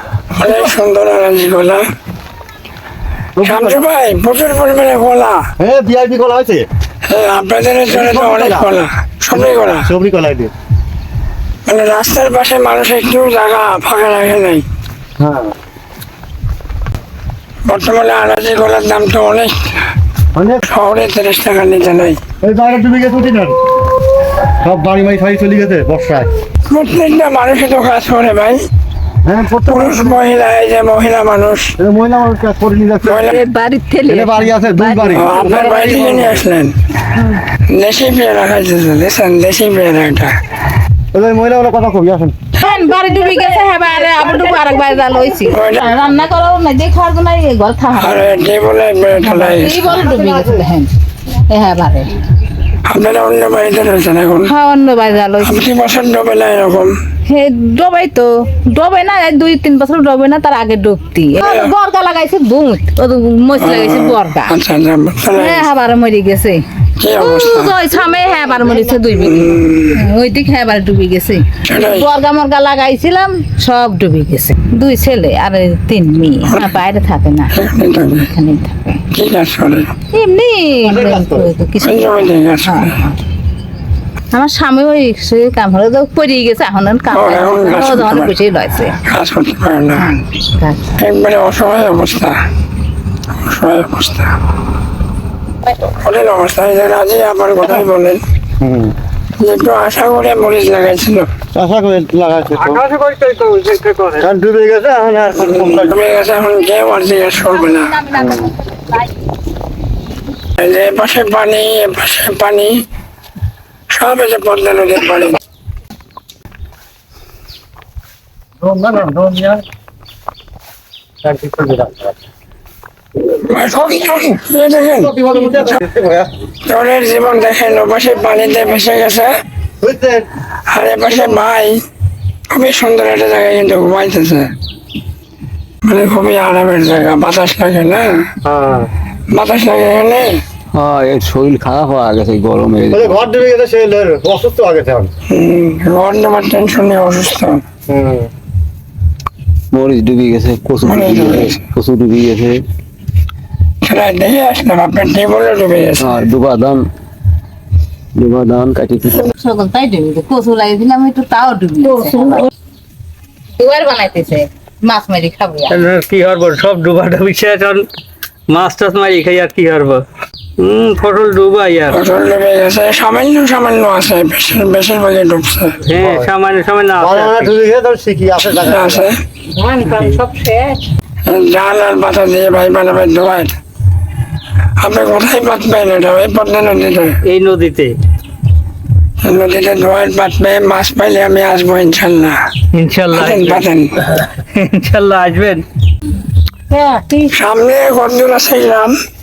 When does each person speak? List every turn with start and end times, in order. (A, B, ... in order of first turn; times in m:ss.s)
0:00.3-0:01.9 A
0:00.5-0:00.7 B
0:03.4-0:03.8 B
0:03.4-0:05.5 A
0:05.6-0:06.7 B
0:07.0-0:09.9 A
0:07.9-0:08.7 B
0:09.4-0:10.5 B
0:11.6-0:14.6 A
0:15.2-0:15.5 B
0:17.7-0:19.7 A
0:20.4-0:20.6 B
0:20.6-0:22.2 A
0:22.4-0:23.6 B
0:24.4-0:26.3 B
0:26.7-0:28.6 A
0:29.2-0:30.2 B
0:29.7-0:31.7 A
0:31.8-0:33.3 B
0:33.0-0:33.4 A
0:33.3-0:36.2 C
0:34.1-0:35.3 B
0:35.1-0:36.8 A
0:37.7-0:40.4 A
0:41.1-0:42.4 B
0:42.6-0:48.3 C
0:45.5-0:46.0 A
0:48.0-0:49.9 A
0:49.2-0:50.9 C
0:51.5-0:52.2 C
0:52.8-0:54.5 A
0:54.5-0:55.6 C
0:55.4-0:57.0 A
0:57.2-1:04.5 C
1:01.4-1:01.7 A
1:03.6-1:05.7 A
1:05.4-1:06.6 C
1:07.0-1:07.8 A
1:07.2-1:09.5 C
1:09.0-1:10.0 A
1:10.0-1:17.5 C
1:11.6-1:12.1 A
1:16.4-1:16.8 A
1:17.5-1:18.3 A
1:18.3-1:19.0 C
1:19.1-1:19.9 A
1:20.1-1:23.1 C
1:20.8-1:21.5 B
1:21.8-1:23.0 A
1:24.3-1:29.0 C
1:27.1-1:28.4 A
1:29.0-1:30.2 A
1:30.6-1:30.8 C
1:31.0-1:32.4 A
1:33.4-1:34.3 A
1:35.8-1:38.2 A
1:38.6-1:39.0 B
1:39.4-1:41.3 A
1:41.5-1:42.8 B
1:42.6-1:44.2 D
1:44.2-1:46.0 B
1:45.4-1:48.1 A
1:48.1-1:48.6 B
1:50.6-1:52.8 A
1:53.9-1:55.4 A
1:58.6-1:59.6 B
2:01.2-2:02.2 B
2:03.3-2:05.1 A
2:05.0-2:06.3 B
2:06.7-2:09.3 A
2:09.8-2:10.3 B
2:10.7-2:11.8 A
2:12.5-2:14.5 A
2:15.8-2:18.2 A
2:18.4-2:18.9 B
2:19.3-2:20.4 A
2:20.7-2:23.3 E
2:22.9-2:25.1 B
2:25.3-2:27.6 A
2:27.9-2:28.3 B
2:29.7-2:32.6 E
2:30.8-2:31.6 A
2:33.8-2:36.1 A
2:36.0-2:36.8 E
2:38.2-2:39.3 E
2:39.4-2:42.5 C
2:43.6-2:45.8 C
2:45.7-2:47.9 D
2:48.5-2:50.0 D
2:50.6-2:52.0 D
2:51.9-2:55.8 A
2:55.9-2:57.5 D
2:56.0-2:56.3 B
2:57.0-2:59.0 B
2:58.5-2:59.2 A
2:59.9-3:00.2 D
3:00.4-3:00.7 C
3:01.2-3:03.6 A
3:04.8-3:07.2 A
3:07.2-3:08.0 D
3:09.2-3:12.4 A
3:12.7-3:13.6 D
3:13.1-3:14.0 A
3:14.2-3:15.6 D
3:16.7-3:17.3 C
3:17.3-3:19.0 A